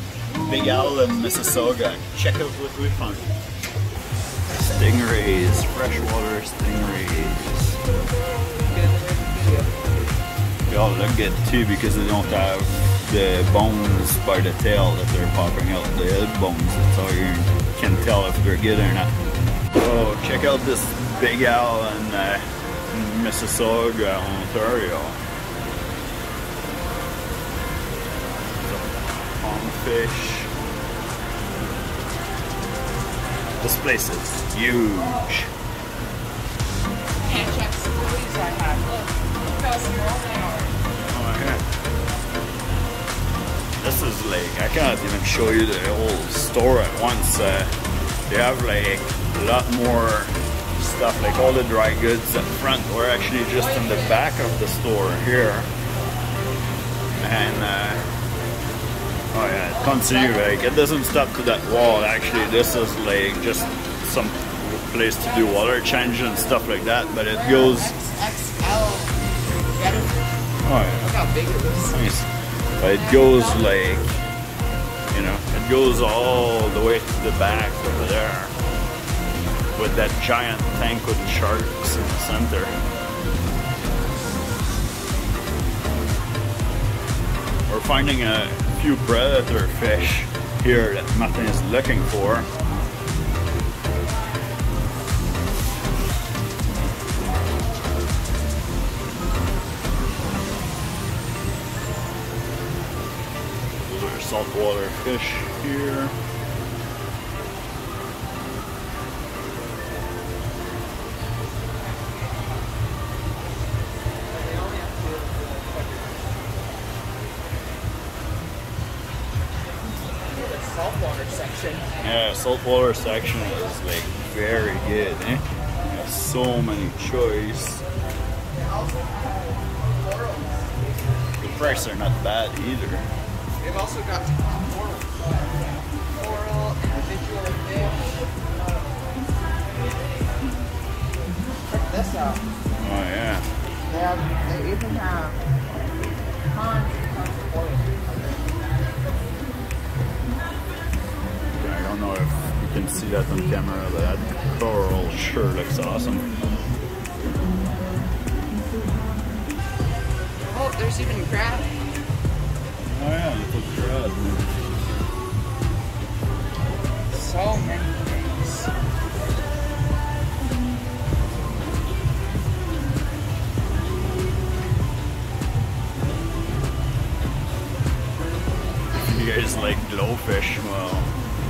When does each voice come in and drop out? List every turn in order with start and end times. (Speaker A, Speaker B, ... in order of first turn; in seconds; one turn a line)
Speaker A: 0.4-3.3
Speaker A: 4.5-7.8
Speaker B: 8.7-10.2
Speaker A: 10.7-19.1
Speaker A: 19.8-25.2
Speaker A: 28.6-30.5
Speaker A: 33.6-35.5
Speaker B: 37.2-40.8
Speaker A: 41.0-41.6
Speaker A: 43.8-47.7
Speaker A: 48.3-55.7
Speaker A: 57.2-58.0
Speaker A: 59.3-67.9
Speaker B: 59.8-60.8
Speaker B: 67.3-70.4
Speaker A: 70.6-71.1
Speaker B: 71.0-72.0
Speaker A: 71.8-74.2
Speaker B: 72.8-74.0
Speaker A: 75.1-78.5
Speaker A: 79.8-82.8
Speaker A: 87.7-92.5
Speaker A: 103.8-106.1
Speaker B: 114.3-116.4
Speaker B: 120.2-121.9
Speaker A: 122.0-127.8
Speaker B: 128.5-131.9
Speaker A: 131.4-133.1
Speaker B: 133.6-139.0
Speaker B: 141.7-142.4
Speaker A: 142.8-143.5
Speaker B: 143.8-145.5
Speaker B: 146.5-148.6
Speaker A: 151.6-156.3
Speaker B: 160.4-161.7
Speaker A: 162.8-164.9
Speaker B: 167.1-168.7
Speaker A: 178.9-181.1